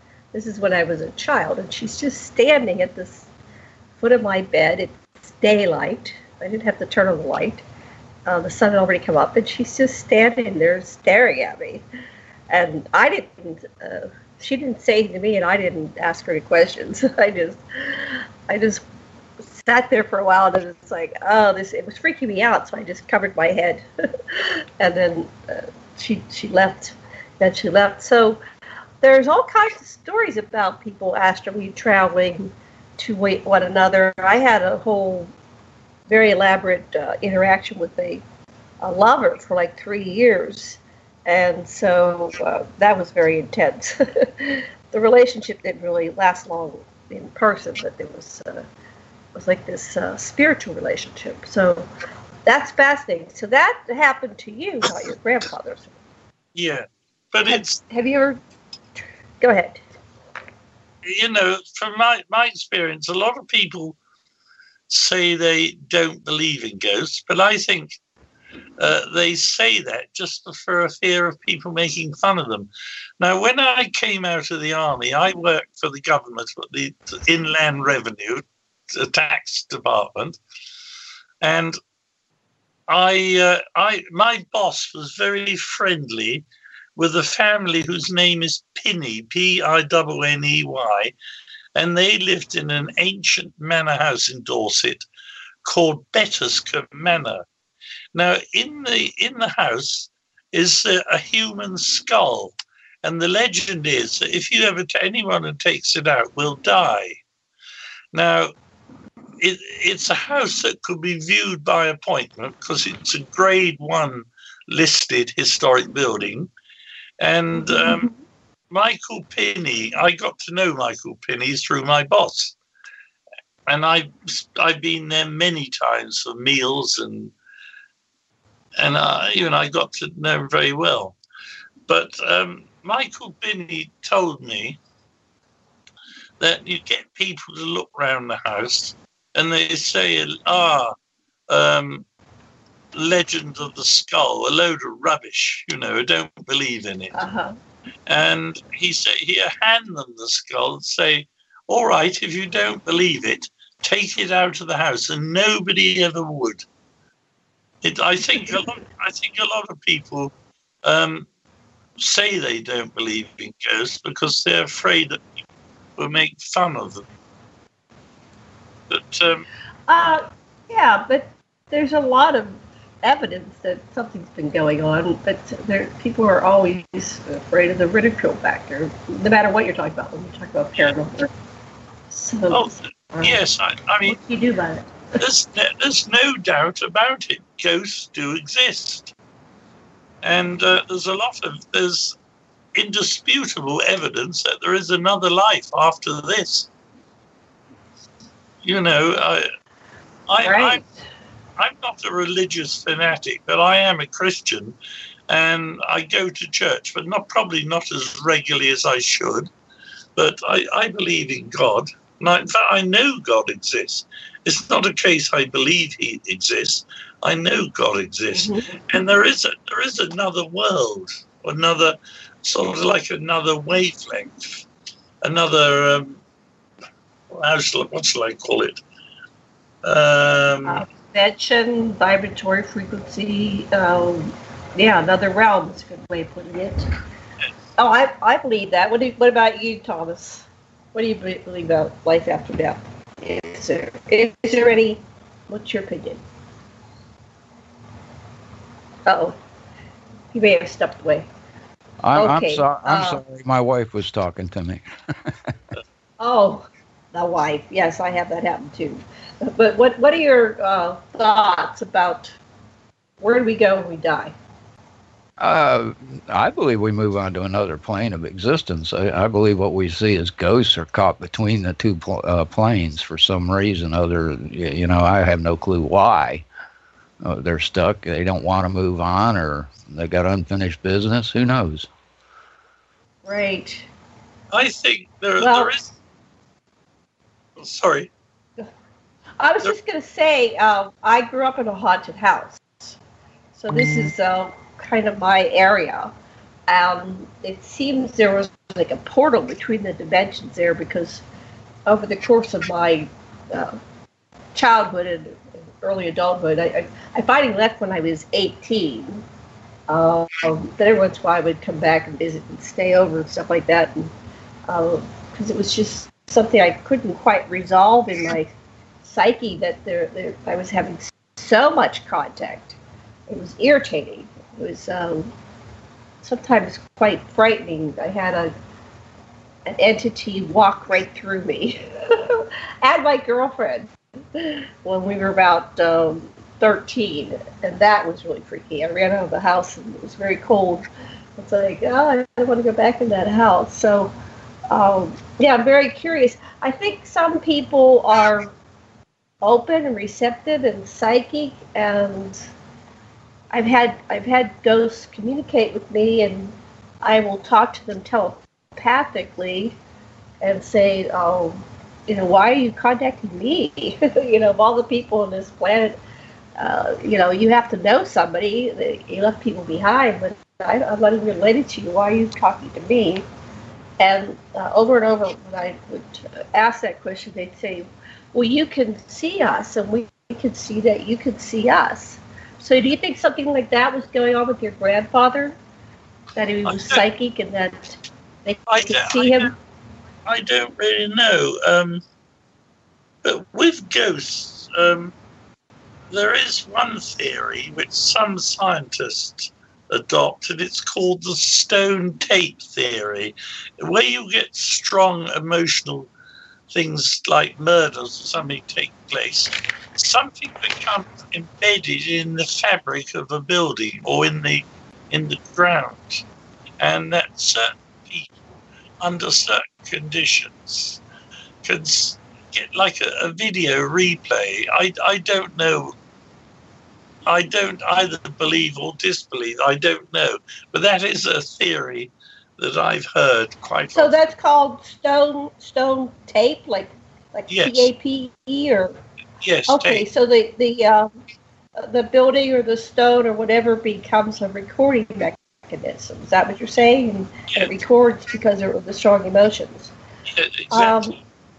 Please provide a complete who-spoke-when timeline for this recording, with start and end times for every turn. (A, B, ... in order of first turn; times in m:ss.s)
0:00.3-0:03.3 A
0:04.0-0:07.6 A
0:08.3-0:11.8 A
0:12.5-0:18.8 A
0:19.4-0:28.4 A
0:29.0-0:35.3 A
0:36.1-0:38.2 A
0:38.8-0:48.6 A
0:49.4-0:51.9 A
0:52.5-0:55.9 A
0:56.6-0:57.8 B
0:57.5-0:58.4 A
0:59.0-0:59.8 A
1:01.1-1:04.0 B
1:04.9-1:08.0 B
1:08.8-1:12.7 B
1:13.2-1:20.4 B
1:21.4-1:21.8 B
1:22.9-1:26.4 B
1:27.0-1:31.1 B
1:31.8-1:35.0 B
1:35.6-1:37.4 B
1:38.2-1:47.2 B
1:48.1-1:48.5 B
1:49.4-1:56.5 B
1:57.2-1:58.1 B
1:57.6-1:58.2 A
1:58.7-2:02.6 B
2:03.7-2:07.3 B
2:08.8-2:11.2 B
2:11.9-2:14.8 B
2:16.4-2:20.9 B
2:21.5-2:22.0 B
2:23.0-2:27.2 B
2:27.1-2:27.5 A
2:28.1-2:36.6 B
2:37.8-2:40.3 B
2:40.8-2:41.3 B
2:42.0-2:45.4 B
2:46.0-2:47.0 B
2:48.9-2:49.4 B
2:49.9-3:01.3 A
3:02.1-3:02.6 A
3:02.5-3:04.2 B
3:03.1-3:03.4 A
3:04.0-3:05.2 A
3:05.2-3:09.1 B
3:10.2-3:12.2 B
3:12.8-3:16.7 B
3:18.6-3:19.5 B
3:20.3-3:20.8 B
3:20.4-3:21.0 A
3:21.6-3:24.8 B
3:25.3-3:29.5 B
3:30.2-3:44.6 B
3:38.4-3:38.7 A
3:45.2-3:46.2 B
3:47.3-3:48.8 B
3:49.8-3:50.8 B
3:50.6-3:56.9 A
3:57.8-4:06.2 A
4:09.1-4:09.3 A
4:10.3-4:11.3 A
4:12.0-4:15.4 C
4:12.2-4:13.2 A
4:16.2-4:22.4 A
4:23.2-4:24.3 A
4:25.4-4:36.4 C
4:37.2-4:41.9 C
4:43.2-4:43.9 A
4:44.5-4:45.9 B
4:45.4-4:45.7 A
4:47.6-4:48.1 B
4:49.4-4:53.0 A
4:53.6-4:56.1 A
4:56.7-5:01.2 A
5:01.9-5:03.8 A
5:04.6-5:09.2 A
5:09.9-5:14.1 A
5:14.7-5:18.5 A
5:19.0-5:22.8 A
5:23.3-5:25.3 A
5:26.2-5:28.5 A
5:29.7-5:40.9 A
5:41.4-5:44.1 A
5:44.7-5:48.5 A
5:49.4-5:52.5 A
5:53.5-5:59.8 A
6:00.4-6:06.0 A
6:06.6-6:13.2 A
6:14.0-6:25.6 A
6:26.4-6:29.5 A
6:26.6-6:27.0 B
6:28.7-6:29.5 B
6:30.3-6:32.0 B
6:33.2-6:35.1 B
6:36.1-6:46.1 B
6:46.7-6:56.2 B
6:56.8-6:58.3 B
6:59.0-7:01.0 B
7:01.6-7:05.9 B
7:07.3-7:14.2 B
7:13.9-7:19.0 A
7:17.5-7:17.9 B
7:19.4-7:20.1 B
7:19.7-7:21.1 A
7:21.8-7:29.9 A
7:30.3-7:31.1 B
7:30.7-7:31.1 A